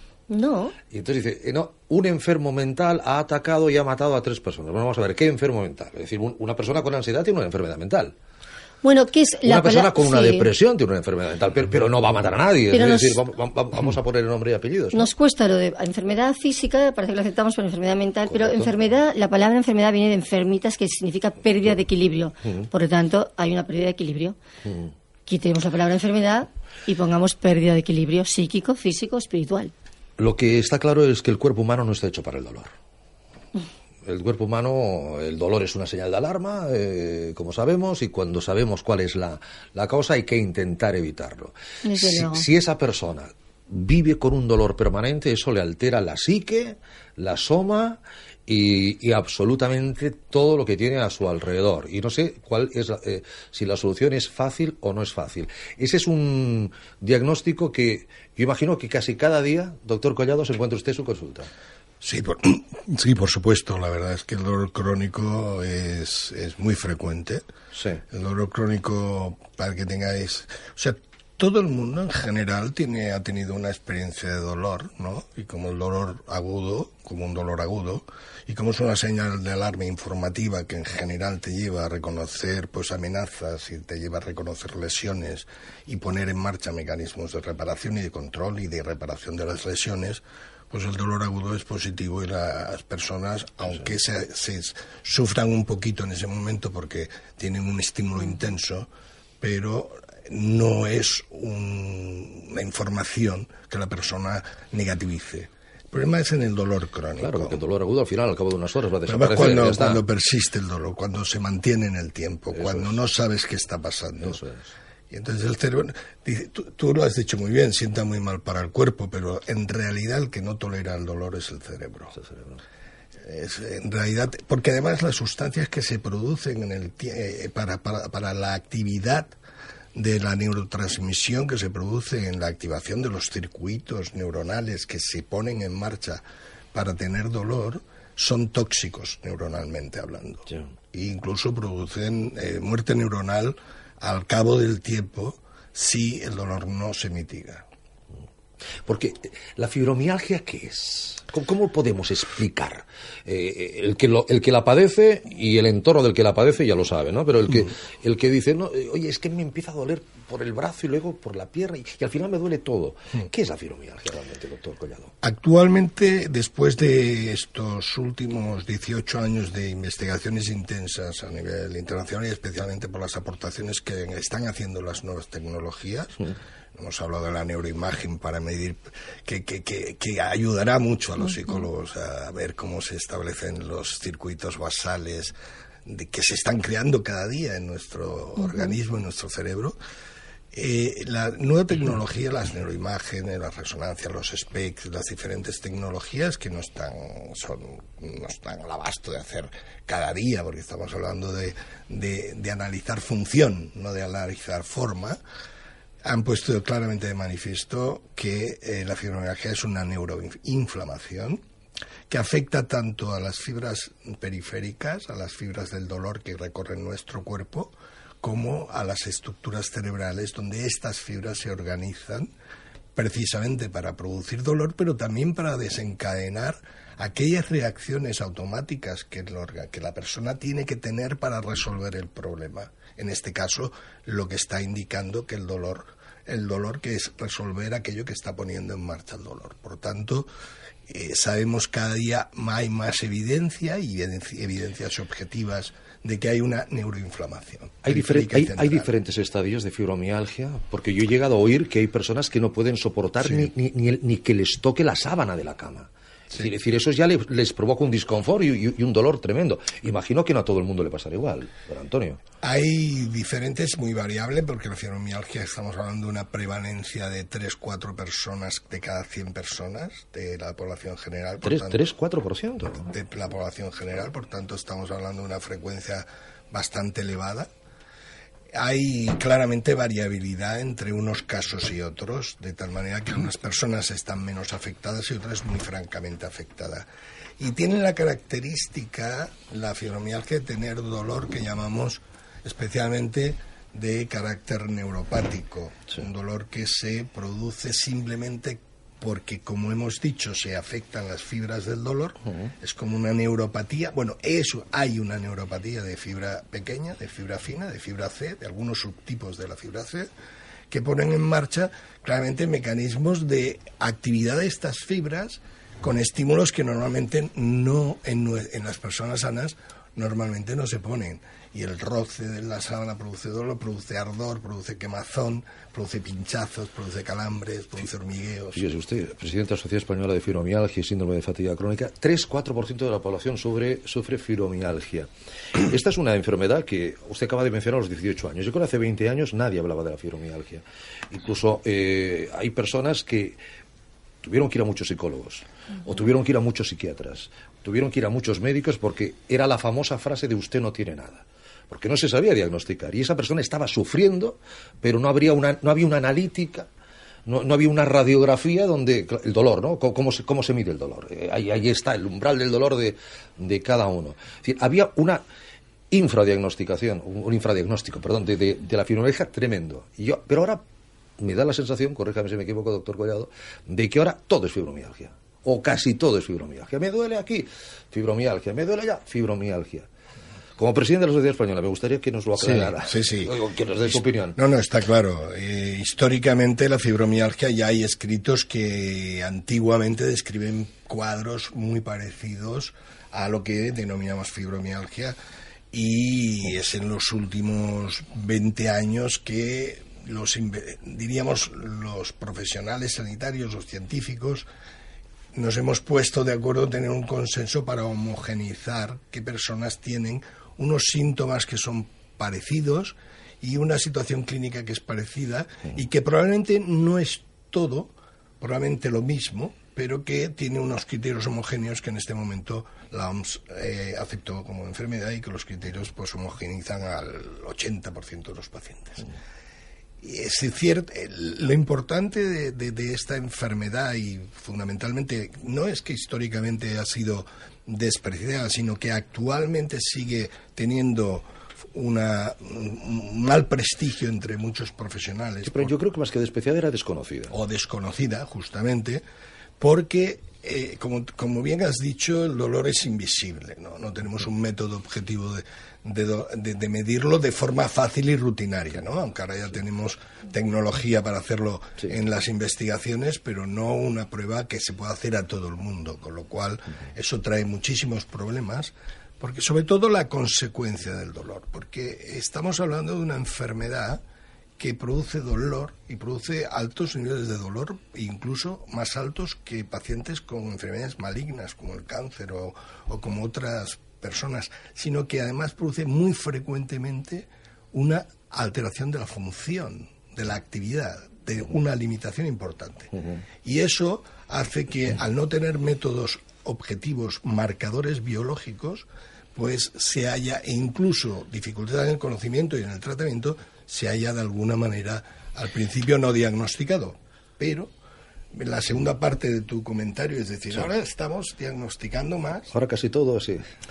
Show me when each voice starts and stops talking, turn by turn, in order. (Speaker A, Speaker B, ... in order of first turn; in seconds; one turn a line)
Speaker A: 0.3-0.7
Speaker B: 0.9-8.1
Speaker A: 8.8-10.5
Speaker B: 9.4-15.1
Speaker A: 12.7-13.2
Speaker A: 14.9-24.4
Speaker B: 18.3-18.7
Speaker B: 24.6-24.9
Speaker A: 25.2-29.7
Speaker B: 30.2-32.7
Speaker B: 34.0-61.5
Speaker A: 41.8-42.5
Speaker C: 62.0-67.5
Speaker B: 67.7-68.0
Speaker C: 68.1-98.9
Speaker C: 99.4-107.6
Speaker B: 107.2-110.0
Speaker C: 109.1-114.4
Speaker B: 112.5-112.9
Speaker B: 114.2-114.7
Speaker C: 115.1-122.2
Speaker B: 122.2-122.6
Speaker C: 123.2-129.3
Speaker C: 129.9-147.6
Speaker B: 148.8-165.1
Speaker C: 165.2-189.8
Speaker C: 190.5-205.2
Speaker C: 206.0-211.4
Speaker C: 212.1-222.3
Speaker C: 222.9-240.3
Speaker C: 240.9-248.9
Speaker B: 247.8-262.2
Speaker C: 253.2-253.5
Speaker C: 262.4-271.8
Speaker B: 271.4-272.9
Speaker C: 272.9-277.5
Speaker C: 278.5-286.9
Speaker C: 287.4-310.1
Speaker C: 310.7-328.6
Speaker B: 328.5-343.4
Speaker B: 344.2-356.7
Speaker B: 357.2-365.2
Speaker B: 365.9-370.6
Speaker B: 371.2-379.9
Speaker B: 380.6-384.4
Speaker C: 382.4-383.3
Speaker C: 383.9-395.2
Speaker C: 395.7-404.5
Speaker C: 405.3-429.1
Speaker C: 430.0-445.7
Speaker B: 445.4-447.3
Speaker C: 447.3-449.0
Speaker C: 449.6-474.0
Speaker C: 474.6-492.9
Speaker C: 493.4-507.7
Speaker C: 508.3-512.5
Speaker B: 512.5-513.4